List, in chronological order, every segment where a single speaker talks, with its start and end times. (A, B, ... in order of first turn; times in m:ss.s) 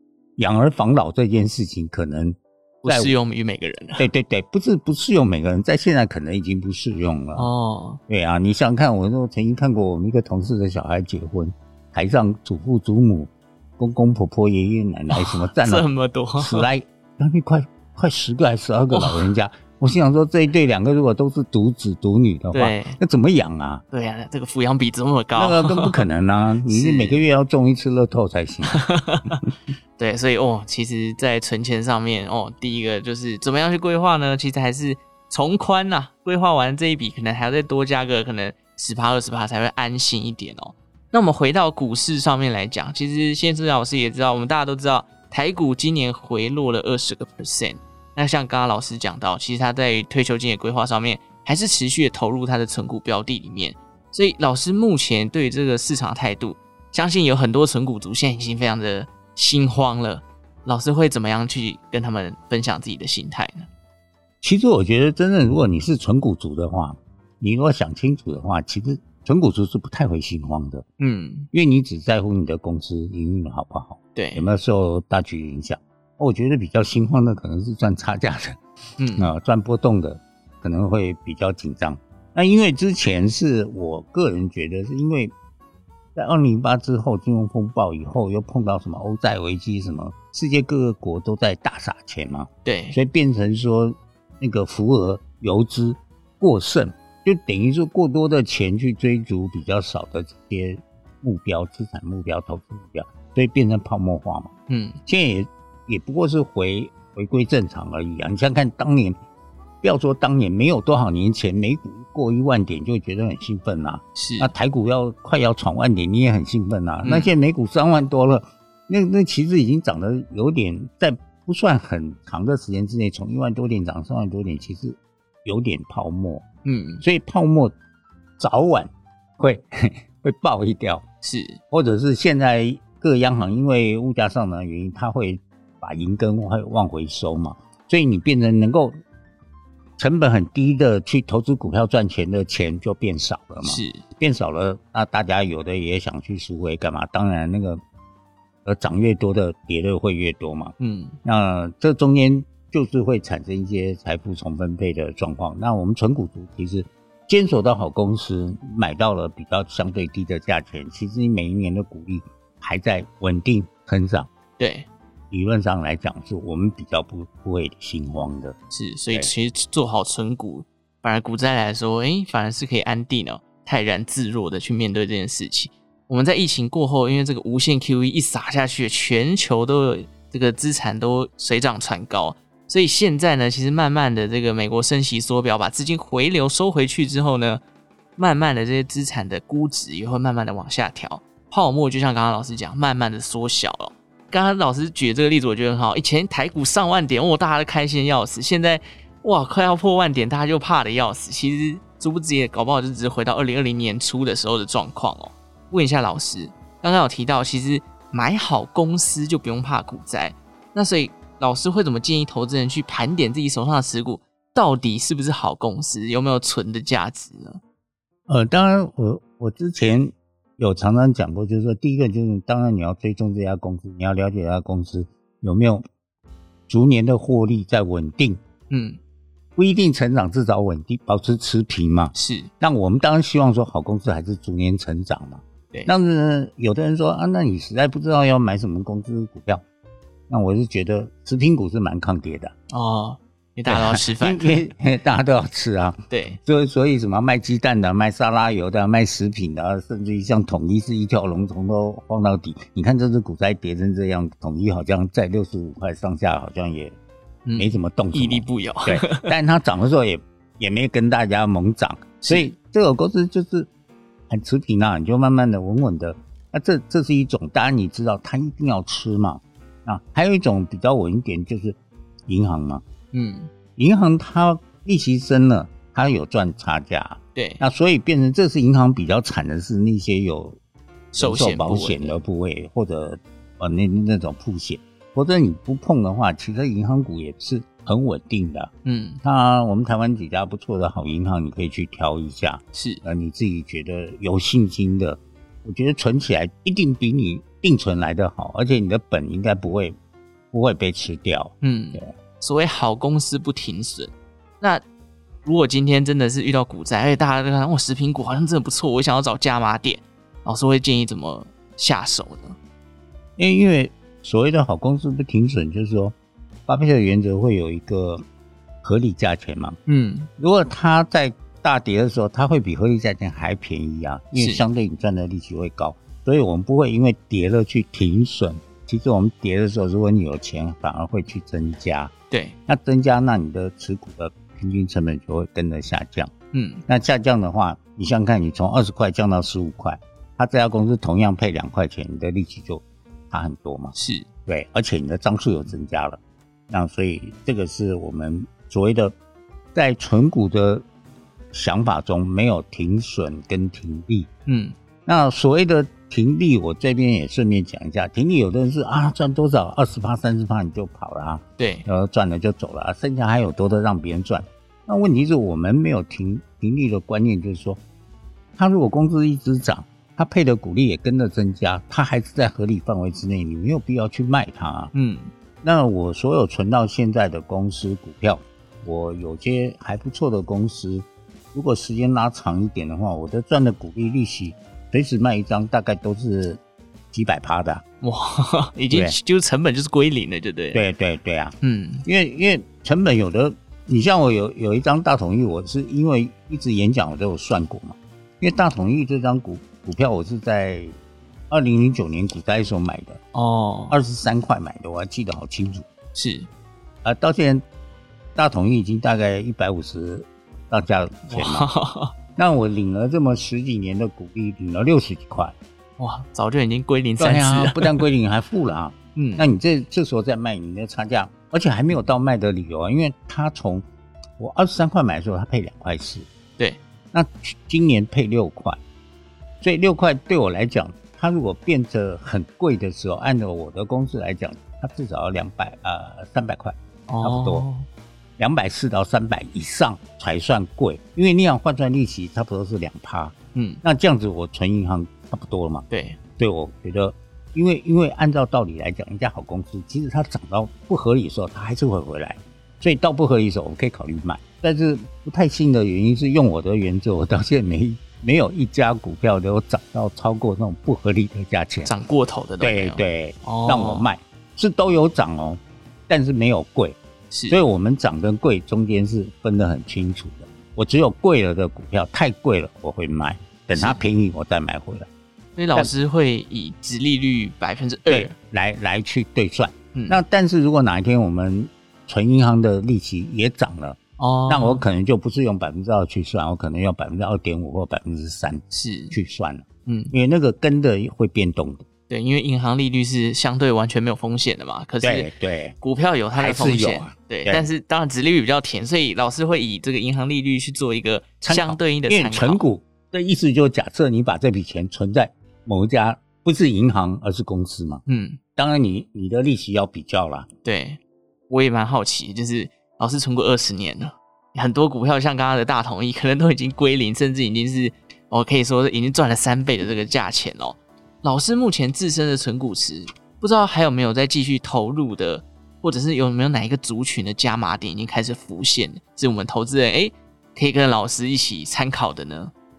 0:00.4-0:03.2 A
0:02.8-0:04.1 B
0:04.0-0:07.5 A
0:07.4-0:08.0 B
0:08.1-0:23.8 A
0:15.1-0:16.7 B
0:18.9-0:19.3 B
0:22.5-0:23.0 B
0:23.9-0:26.1 B
0:25.3-0:29.4 A
0:26.7-0:27.3 B
0:28.7-0:29.4 B
0:30.0-1:03.7 B
1:04.4-1:10.8 A
1:11.0-1:11.5 B
1:11.5-1:18.6 A
1:14.2-1:14.5 B
1:19.0-1:19.3 B
1:19.2-1:25.3 A
1:26.2-1:44.5 A
1:32.6-1:33.0 B
1:44.7-1:45.0 B
1:45.1-1:49.2 A
1:49.8-2:06.4 A
1:54.2-1:54.5 B
1:57.0-1:57.3 B
2:06.6-2:07.0 B
2:07.0-2:07.8 A
2:08.4-2:11.0 A
2:11.2-2:11.6 B
2:11.7-2:18.9 A
2:20.0-2:27.8 A
2:23.6-2:24.0 B
2:28.6-2:44.3 A
2:30.8-2:31.2 B
2:44.6-2:44.9 B
2:45.3-2:48.6 A
2:48.7-3:07.6 B
3:08.2-3:37.6 B
3:38.3-3:45.8 A
3:46.7-3:48.4 A
3:48.7-3:49.0 B
3:49.6-3:59.6 A
3:52.1-3:52.5 B
4:00.3-4:02.5 A
4:02.7-4:04.7 B
4:03.7-4:17.0 A
4:06.1-4:06.4 B
4:17.4-4:19.3 B
4:17.6-4:23.7 A
4:22.2-4:22.5 B
4:24.3-4:32.8 A
4:33.1-4:33.5 B
4:33.8-4:40.6 A
4:37.4-4:37.6 B
4:41.1-4:42.2 B
4:41.1-4:48.7 A
4:48.8-4:49.2 B
4:49.2-5:00.0 A
4:52.7-4:53.0 B
5:00.5-5:02.1 A
5:01.6-5:04.8 B
5:05.4-5:12.6 B
5:13.4-5:16.2 A
5:16.7-5:18.2 A
5:18.8-5:19.8 A
5:19.9-5:20.3 B
5:20.4-5:32.1 A
5:24.4-5:24.6 B
5:32.3-5:32.6 B
5:32.7-5:36.3 A
5:36.5-5:36.8 B
5:36.9-5:44.0 A
5:44.0-5:44.3 B
5:44.5-5:49.2 A
5:49.7-5:50.8 A
5:51.5-5:54.3 A
5:54.5-5:54.8 B
5:55.1-6:07.8 A
6:01.6-6:01.9 B
6:08.6-6:14.9 A
6:14.9-6:15.3 B
6:15.6-6:26.6 A
6:27.1-6:27.8 A
6:28.0-6:30.8 B
6:28.9-6:29.2 A
6:30.7-6:41.0 A
6:31.6-6:32.1 B
6:41.5-6:43.2 A
6:43.3-6:44.0 B
6:43.9-6:45.9 A
6:46.1-6:46.5 B
6:47.0-6:47.6 A
6:48.4-6:51.7 A
6:51.3-6:52.2 B
6:52.4-6:55.5 A
6:56.0-6:58.1 B
6:57.2-7:03.8 A
6:59.2-6:59.5 B
7:04.4-7:06.3 A
7:07.1-7:08.8 A
7:09.6-7:17.7 A
7:17.1-7:17.9 B
7:18.4-7:25.9 A
7:23.5-7:23.8 B
7:25.9-7:26.2 B
7:26.4-7:42.0 A
7:41.8-7:44.1 B
7:42.6-7:55.1 A
7:47.3-7:47.6 B
7:53.7-7:54.0 B
7:55.6-7:58.3 B
7:58.1-8:11.8 A
7:59.9-8:00.2 B
8:04.2-8:04.8 B
8:08.7-8:09.2 B
8:09.9-8:10.1 B
8:12.1-8:22.6 B
8:15.0-8:15.8 A
8:16.3-8:17.7 A
8:21.4-8:28.0 A
8:28.1-8:28.4 B
8:28.6-8:30.5 A
8:30.6-8:52.5 B